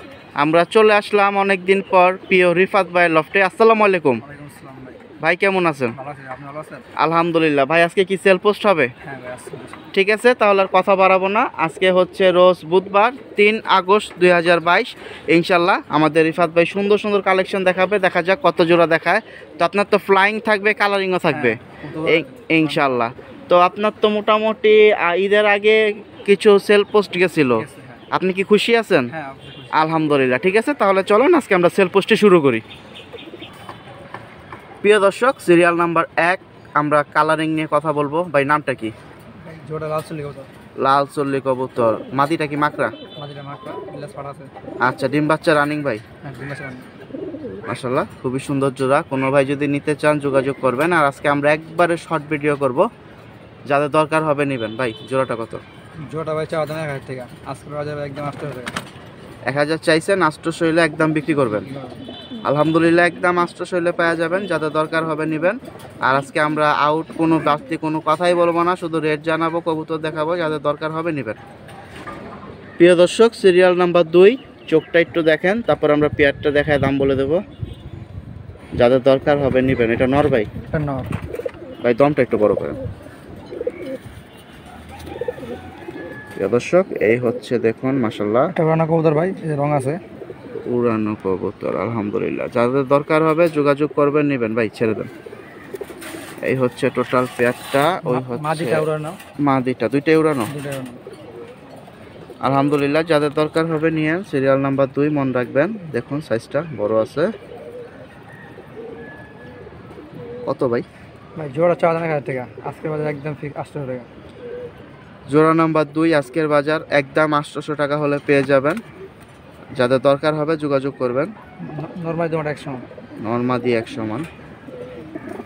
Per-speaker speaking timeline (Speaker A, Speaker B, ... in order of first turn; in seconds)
Speaker A: 0.4-4.2, 5.2-5.9, 7.0-8.9, 9.9-29.1, 29.7-32.6, 34.8-38.9, 40.8-42.9, 44.8-46.0, 47.7-52.8, 53.7-55.6, 59.5-61.7, 62.4-71.4, 72.8-77.4, 78.8-80.5, 81.8-82.8, 86.3-88.5, 90.7-95.1, 96.5-98.8, 99.5-100.5, 102.4-107.3, 110.5-110.8, 115.3-118.8, 119.8-121.3, 123.2-124.3
Speaker B: 4.2-5.0, 5.9-6.8, 9.0-9.8, 21.3-23.0, 27.5-28.0, 29.1-29.7, 39.4-40.5, 43.2-44.5, 46.2-46.8, 56.0-58.7, 61.4-62.0, 80.7-81.1, 88.5-90.0, 98.0-99.2, 100.5-101.0, 111.4-114.1, 121.6-122.8